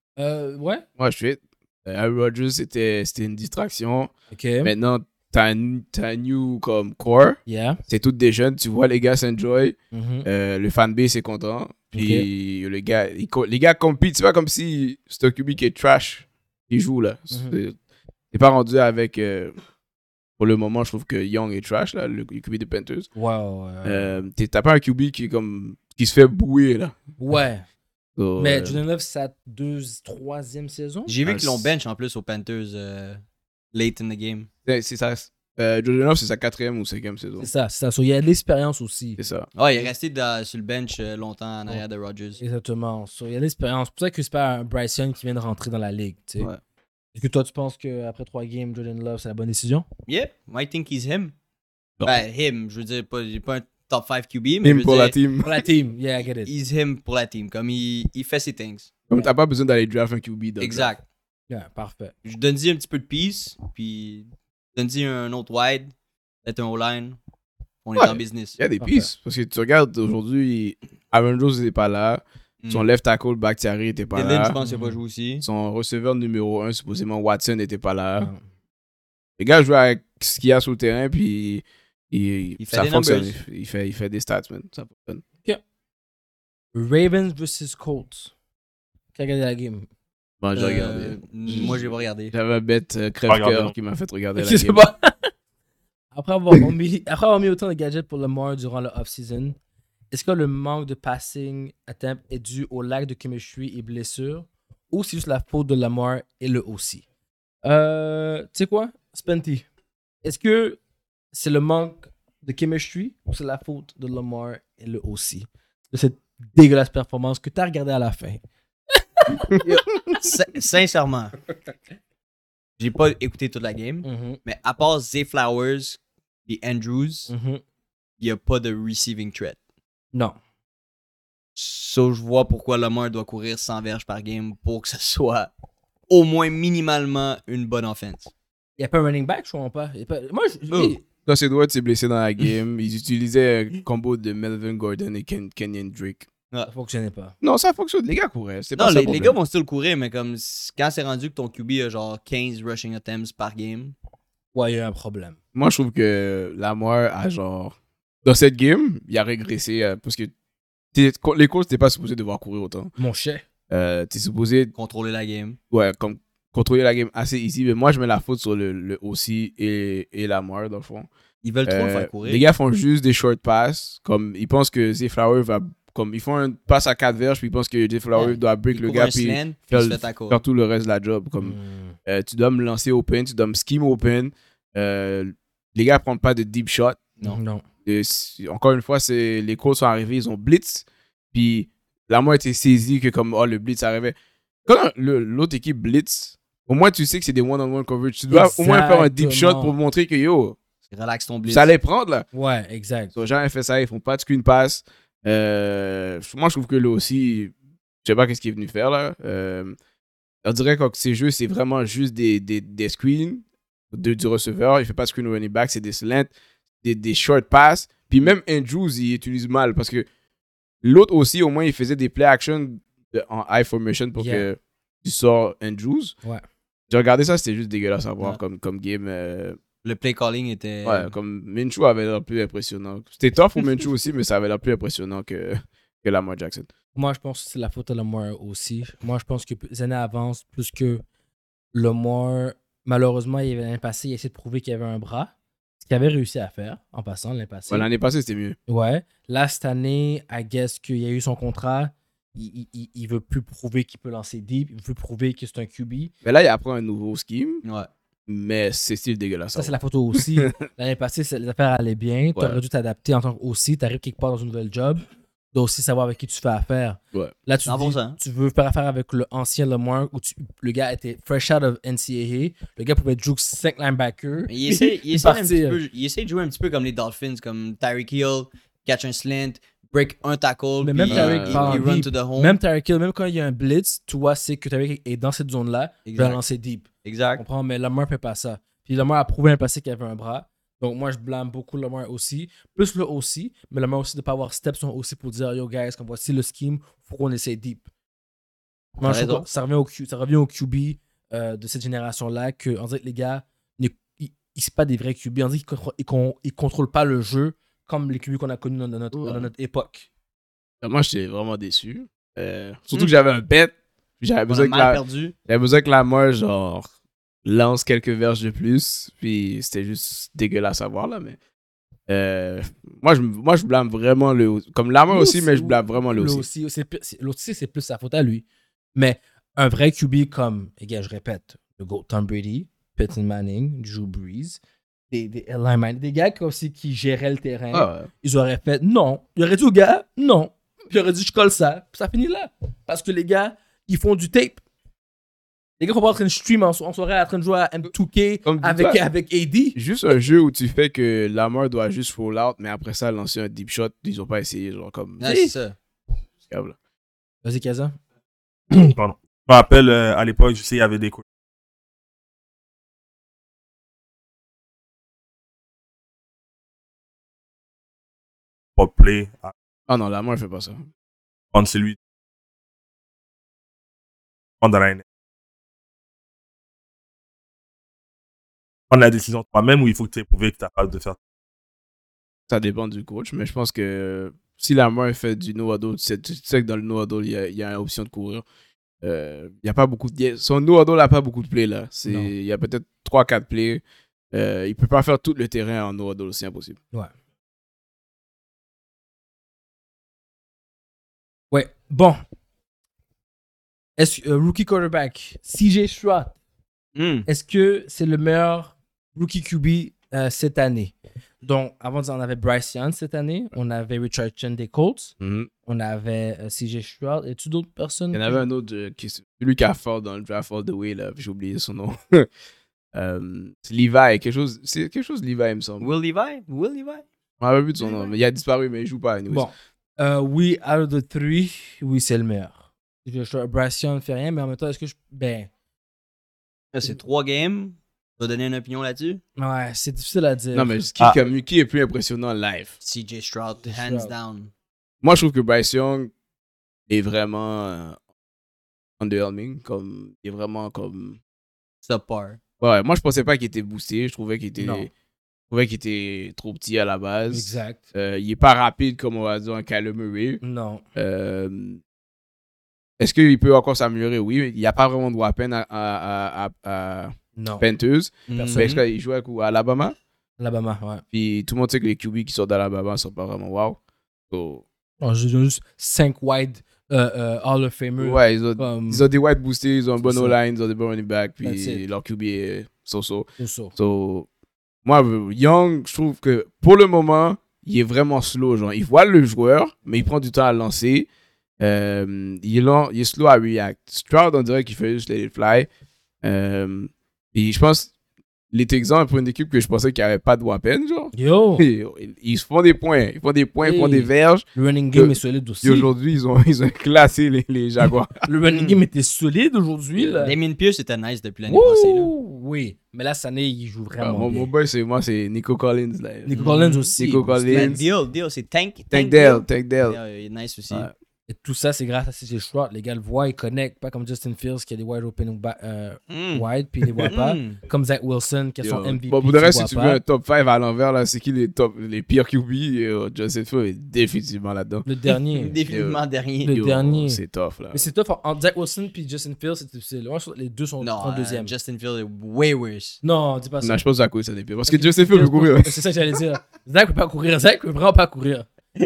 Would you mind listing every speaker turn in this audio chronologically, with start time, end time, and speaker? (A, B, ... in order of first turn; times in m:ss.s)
0:00.2-0:00.8 A
0:01.0-0:04.1 B
0:04.3-0:04.7 A
0:04.6-0:17.8 B
0:07.5-0:07.8 A
0:09.9-0:10.3 A
0:11.9-0:12.3 A
0:17.3-0:17.6 A
0:18.3-0:19.6 B
0:20.4-0:23.1 B
0:23.2-0:24.2 A
0:23.8-0:27.0 B
0:27.2-0:27.6 A
0:28.2-0:28.8 B
0:28.4-0:31.1 A
0:31.1-0:33.2 C
0:31.2-0:31.7 B
0:33.7-0:34.5 C
0:34.6-0:37.5 B
0:37.4-0:39.2 A
0:39.2-0:39.5 B
0:39.6-0:42.4 C
0:42.4-0:46.5 A
0:47.2-0:49.9 A
0:50.1-0:51.3 C
0:52.0-0:55.2 C
0:54.6-0:55.6 B
0:55.4-0:56.5 A
0:56.4-0:58.9 C
0:59.1-1:00.9 B
1:00.6-1:01.0 C
1:01.5-1:02.1 A
1:02.2-1:05.9 C
1:06.4-1:07.2 C
1:07.8-1:08.6 C
1:08.0-1:14.6 B
1:08.8-1:09.1 A
1:12.6-1:12.9 C
1:14.1-1:15.4 C
1:14.6-1:15.0 A
1:15.4-1:18.3 B
1:19.4-1:25.2 B
1:22.6-1:23.4 C
1:26.7-1:28.3 A
1:29.2-1:29.9 A
1:30.4-1:34.8 B
1:30.6-1:32.3 C
1:33.3-1:33.7 D
1:34.4-1:35.3 A
1:36.1-1:39.6 A
1:40.1-1:47.0 A
1:47.6-1:49.7 A
1:50.2-1:50.8 A
1:51.3-1:58.4 A
1:58.9-2:00.1 A
2:00.2-2:01.4 C
2:02.8-2:07.3 C
2:04.0-2:04.4 A
2:07.3-2:07.6 A
2:08.2-2:09.6 C
2:11.6-2:15.5 C
2:16.1-2:18.3 C
2:18.8-2:21.0 A
2:20.7-2:26.3 B
2:26.7-2:27.4 A
2:27.4-2:29.4 B
2:28.8-2:33.9 C
2:34.5-2:35.4 A
2:35.5-2:40.3 B
2:40.9-2:42.9 B
2:43.0-2:43.4 A
2:43.7-2:44.7 B
2:44.8-2:45.6 C
2:45.7-2:51.1 B
2:51.4-2:52.5 C
2:51.7-3:07.1 B
2:58.1-3:00.4 C
3:01.4-3:02.0 A
3:07.2-3:07.6 A
3:07.8-3:14.2 B
3:14.7-3:20.6 B
3:18.3-3:19.8 A
3:20.9-3:21.7 C
3:21.5-3:22.3 B
3:22.3-3:23.1 A
3:23.1-3:29.8 B
3:30.4-3:36.3 B
3:36.8-3:40.1 B
3:40.8-3:46.1 B
3:44.2-3:44.5 A
3:46.9-3:49.6 B
3:49.8-3:51.1 C
3:50.8-3:56.7 B
3:57.0-4:01.0 A
4:01.7-4:07.9 A
4:07.7-4:08.6 B
4:08.7-4:16.1 A
4:16.2-4:17.6 B
4:17.6-4:17.9 C
4:18.3-4:20.5 B
4:19.5-4:35.8 A
4:22.4-4:22.6 B
4:27.6-4:28.2 C
4:34.5-4:42.6 C
4:40.8-4:46.8 A
4:41.1-4:41.9 B
4:46.1-4:46.4 C
4:47.0-4:47.4 C
4:47.4-4:57.8 A
4:59.0-4:59.5 C
4:59.0-5:10.1 A
5:10.8-5:16.9 B
5:14.5-5:15.3 C
5:17.4-5:21.4 B
5:22.1-5:26.5 B
5:25.1-5:28.4 A
5:29.0-5:34.6 A
5:35.1-5:44.6 A
5:37.7-5:38.1 B
5:45.8-5:49.8 A
5:48.4-5:49.0 B
5:49.8-5:55.3 B
5:55.2-5:55.8 C
5:55.2-5:55.5 A
5:56.5-5:56.8 B
5:57.4-5:58.0 A
5:58.7-6:01.2 D
6:08.8-6:09.5 D
6:09.9-6:10.9 B
6:11.5-6:12.0 D
6:14.6-6:15.0 D
6:18.9-6:21.2 D
6:22.5-6:28.4 B
6:29.0-6:36.8 B
6:32.1-6:32.3 A
6:41.5-6:42.2 A
6:44.0-6:46.4 A
6:47.0-6:47.3 C
6:47.3-6:55.2 A
6:55.2-6:55.5 B
6:55.7-6:58.4 A
6:58.1-7:02.3 B
7:02.9-7:05.9 B
7:05.8-7:07.0 C
7:07.4-7:09.5 B
7:09.3-7:15.5 A
7:16.7-7:19.2 C
7:19.4-7:20.8 A
7:20.5-7:22.8 B
7:22.8-7:24.5 C
7:23.6-7:24.1 A
7:25.0-7:26.1 B
7:26.9-7:28.0 B
7:29.0-7:31.2 B
7:31.8-7:32.4 C
7:32.6-7:34.9 B
7:34.6-7:34.9 A
7:35.5-7:40.4 B
7:37.3-7:37.8 A
7:40.4-7:40.8 A
7:41.0-7:41.8 B
7:43.0-7:50.0 B
7:47.4-7:47.6 A
7:48.3-7:48.8 C
7:48.3-7:48.7 A
7:50.4-7:51.0 A
7:51.1-7:53.8 B
7:54.3-7:54.6 B
7:55.0-7:59.1 A
7:58.0-8:04.3 B
8:00.0-8:00.4 A
8:01.4-8:01.8 A
8:03.4-8:03.7 A
8:04.8-8:11.1 B
8:11.6-8:15.7 B
8:16.2-8:17.9 B
8:18.5-8:28.7 B
8:21.1-8:21.7 A
8:23.6-8:25.9 A
8:28.2-8:30.4 A
8:30.2-8:32.1 C
8:31.5-8:34.5 A
8:34.0-8:37.8 B
8:36.3-8:37.8 A
8:36.4-8:36.9 C
8:37.5-8:40.9 C
8:38.9-8:40.0 B
8:41.3-8:50.0 A
8:46.1-8:46.4 C
8:47.0-8:47.6 C
8:48.6-8:54.9 B
8:54.8-8:55.6 A
8:55.3-8:56.6 C
8:55.7-8:57.9 B
8:56.4-8:57.2 A
8:57.7-9:01.5 A
9:00.8-9:03.0 C
9:03.0-9:03.8 A
9:03.6-9:05.8 B
9:04.7-9:08.5 A